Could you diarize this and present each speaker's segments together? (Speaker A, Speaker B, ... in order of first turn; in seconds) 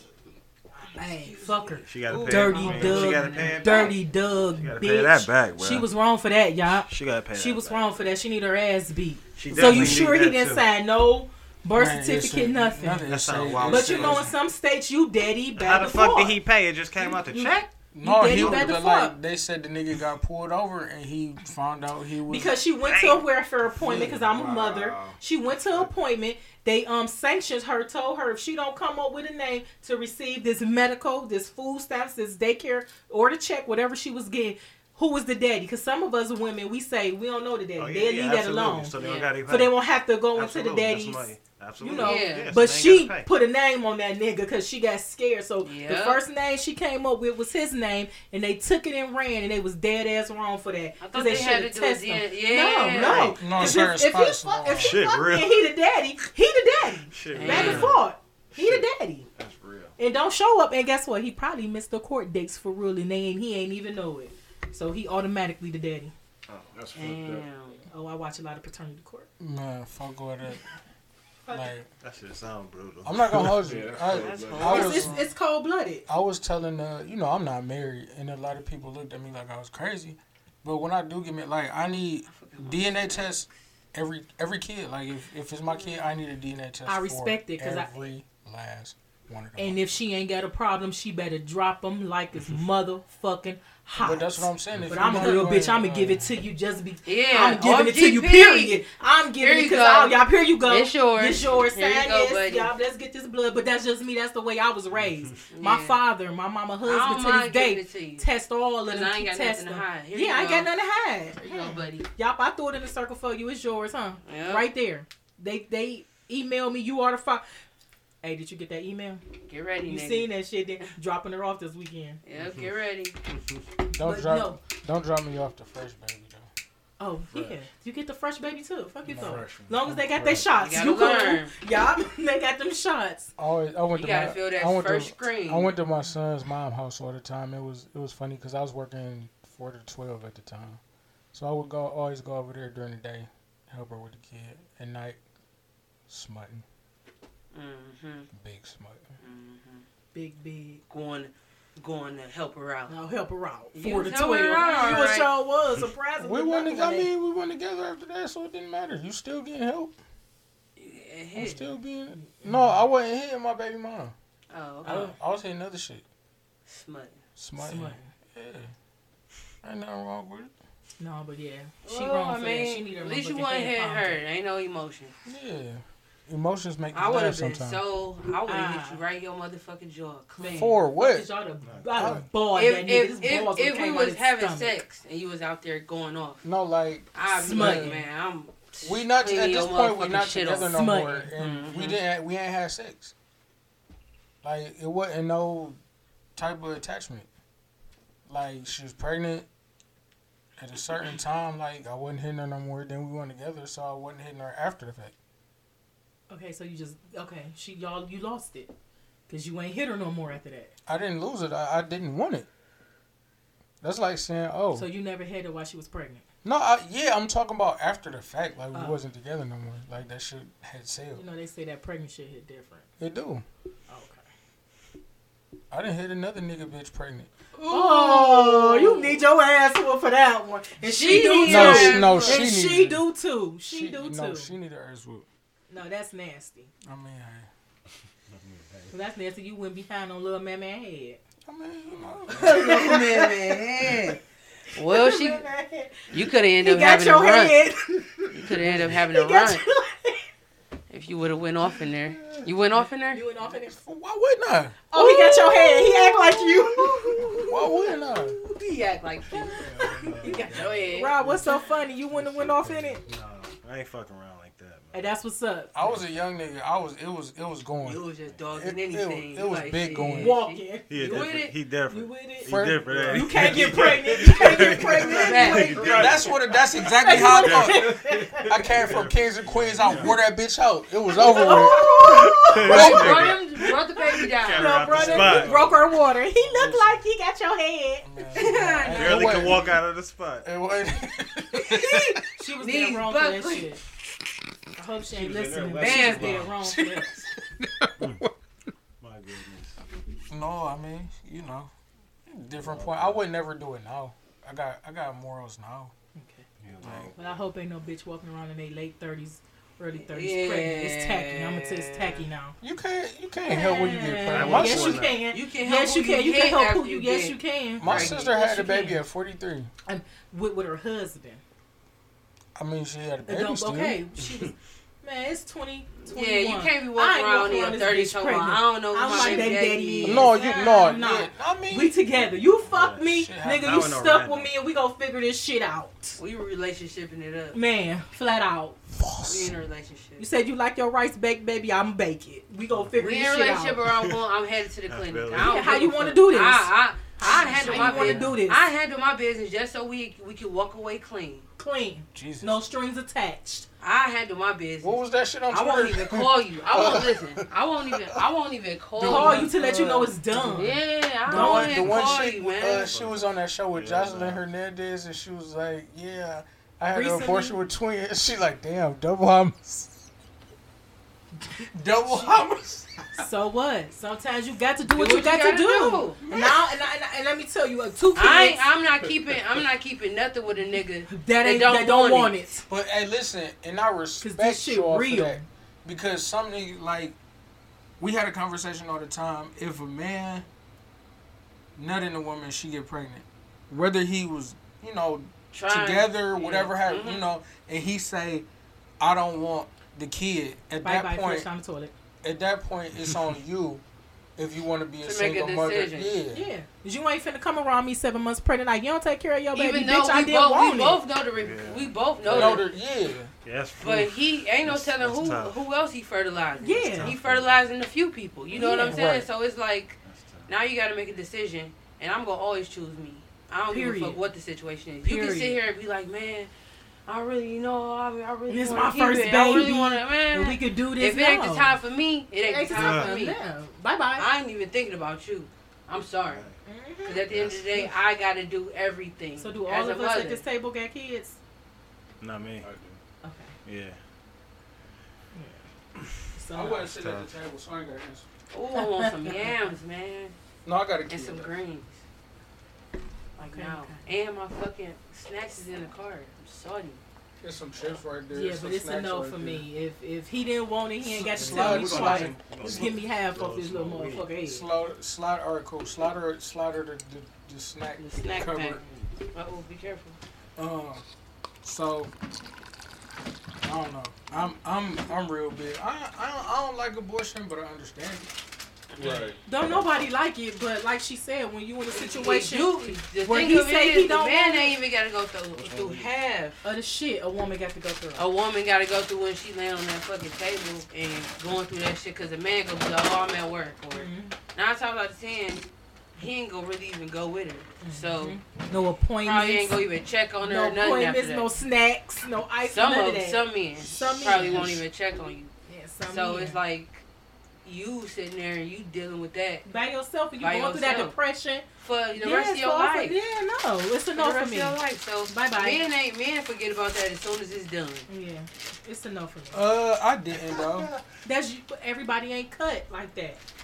Speaker A: 0.9-13.1, 13.6-16.4, 17.0-19.1, 22.3-38.9, 39.5-41.3, 41.8-59.3, 60.0-66.1, 67.9-69.3, 74.6-76.0, 86.8-87.9, 89.6-117.4, 118.2-119.2, 119.8-122.2, 124.0-124.6, 127.0-133.3, 150.1-150.8, 152.9-157.1, 162.1-162.8, 167.6-168.1, 171.0-174.2, 178.5-179.0, 180.4-184.7, 187.3-188.0, 190.7-191.3, 206.3-208.7, 209.3-210.7, 214.7-216.2, 218.7-219.0, 221.1-222.9, 223.9-224.2, 227.7-234.5, 235.7-236.7, 238.9-241.2, 242.3-244.0, 244.8-250.2, 253.1-253.8, 254.9-257.8, 259.3-263.0, 264.9-265.7, 270.0-278.5, 279.8-280.1, 281.1-283.2, 284.5-288.1, 291.7-293.8, 294.8-297.1, 306.1-306.4, 307.1-312.6, 313.4-319.0, 319.9-321.4, 323.3-336.2, 337.5-338.8, 340.2-343.8, 345.3-348.7, 351.6-353.6, 359.0-361.9, 366.9-367.6, 373.2-378.6, 381.1-382.6, 384.2-385.4, 400.8-401.9, 406.3-411.0, 416.6-417.1, 418.5-419.0, 423.7-424.2, 425.0-425.6, 428.5-431.8, 432.4-434.3, 436.6-437.3, 439.4-441.4, 443.2-443.5, 445.3-445.7, 446.3-446.9, 448.8-449.5, 453.4-454.0, 458.3-464.7, 479.4-484.8, 486.6-488.2, 493.9-494.3, 497.8-499.8, 500.4-504.8, 505.7-506.6, 509.6-511.6, 512.1-515.8, 518.1-519.6, 521.2-523.4
Speaker B: 1.0-3.9, 39.0-39.3, 42.0-42.5, 45.6-46.2, 51.0-53.3, 57.3-58.0, 66.9-67.8, 74.0-75.3, 82.3-83.5, 97.0-98.8, 99.4-102.7, 105.5-106.0, 106.8-108.3, 108.9-110.7, 111.4-112.1, 114.2-114.7, 119.5-120.3, 122.2-123.2, 130.6-131.5, 133.9-135.7, 147.5-148.3, 149.2-149.8, 150.9-152.9, 153.7-155.3, 160.8-161.6, 164.5-165.2, 166.7-167.2, 171.8-175.1, 176.9-180.8, 182.5-186.4, 187.1-190.7, 191.3-192.0, 227.6-229.2, 230.8-232.4, 242.4-244.2, 244.7-245.4, 246.1-247.6, 248.3-249.7, 250.9-253.2, 254.9-261.5, 267.8-271.5, 275.0-276.1, 282.6-285.2, 288.3-289.6, 292.6-293.7, 295.8-296.5, 309.9-312.3, 315.3-318.1, 326.1-330.3, 336.2-337.6, 339.2-340.2, 343.0-351.4, 353.8-362.9, 374.9-376.2, 378.1-382.3, 395.5-397.2, 405.0-406.2, 409.5-412.6, 413.8-426.5, 427.1-433.4, 434.1-436.5, 437.1-440.4, 448.5-450.3, 451.1-452.0, 453.4-457.0, 468.0-468.8, 469.3-470.2, 478.9-479.3, 481.9-486.6, 488.1-498.4, 499.2-501.5, 502.6-505.5, 506.1-507.0, 507.6-509.6, 510.4-511.1, 511.8-513.1, 514.1-518.1
Speaker C: 1.8-5.9, 6.8-7.9, 9.3-10.6, 13.1-14.3, 15.6-17.7, 18.2-18.8, 22.8-23.2, 37.8-39.8, 40.3-43.3, 52.9-53.6, 54.7-55.7, 57.1-58.0, 58.5-58.8, 59.4-59.9, 66.5-66.7, 72.0-73.5, 105.0-105.3, 122.4-122.7, 181.6-182.2, 238.3-238.9, 259.5-261.4, 262.1-265.1, 270.9-276.3, 277.1-280.2, 281.6-283.6, 284.3-285.7, 288.9-290.5, 295.1-296.5, 299.0-299.8, 302.6-303.2, 306.6-307.4, 314.3-315.2, 317.8-318.2, 332.6-334.5, 343.8-344.1, 344.9-345.7, 347.7-348.3, 362.7-364.4, 411.3-412.6, 413.4-415.6, 416.8-417.7, 420.0-420.5, 432.7-433.1, 436.2-436.6, 437.2-437.9, 442.2-442.7, 443.6-444.0, 446.9-447.3, 461.3-464.3, 485.6-486.1, 520.4-521.0
Speaker D: 2.1-3.5, 23.8-25.9, 66.7-67.5, 73.5-74.9, 127.3-127.7, 129.1-130.5, 285.2-285.7, 442.6-443.0, 479.0-479.4
Speaker E: 9.5-10.0, 11.7-14.3, 17.9-22.6, 53.4-55.0, 69.4-70.6, 71.5-71.9, 73.0-75.1, 76.1-89.8, 94.0-96.3, 123.9-126.5, 129.1-129.4, 133.4-140.8, 141.3-145.2, 146.1-146.6, 148.3-149.1, 156.2-159.9, 161.3-164.1, 164.8-166.0, 167.4-168.7, 169.6-170.5, 175.2-177.8, 180.5-181.3, 181.9-182.2, 186.4-187.9, 188.8-193.1, 194.4-195.8, 196.3-197.3, 198.3-199.5, 200.6-205.1, 210.8-212.5, 213.8-214.9, 216.4-221.2, 223.0-223.4, 225.7-227.3, 231.4-233.0, 233.7-235.2, 236.8-237.5, 241.4-242.7, 253.5-255.0, 257.5-258.4, 265.7-270.4, 272.4-275.0, 275.7-283.4, 284.9-285.6, 286.3-287.0, 288.0-289.8, 290.4-292.2, 296.6-298.3, 300.3-301.7, 302.3-305.9, 306.8-307.1, 312.6-315.1, 317.8-319.7, 322.6-324.0, 329.1-329.5, 330.0-331.9, 333.0-333.9, 338.9-339.5, 347.7-348.2, 352.1-352.6, 354.8-358.2, 359.0-360.1, 361.2-370.0, 371.7-373.2, 382.7-387.1, 388.0-390.5, 391.8-398.4, 399.0-401.5, 402.2-403.8, 404.4-406.5, 412.3-413.3, 418.8-419.3, 446.5-448.3, 450.6-451.5, 457.4-459.6, 461.0-462.8, 464.4-468.8, 470.6-471.0, 471.6-472.1, 473.6-478.3, 519.5-520.9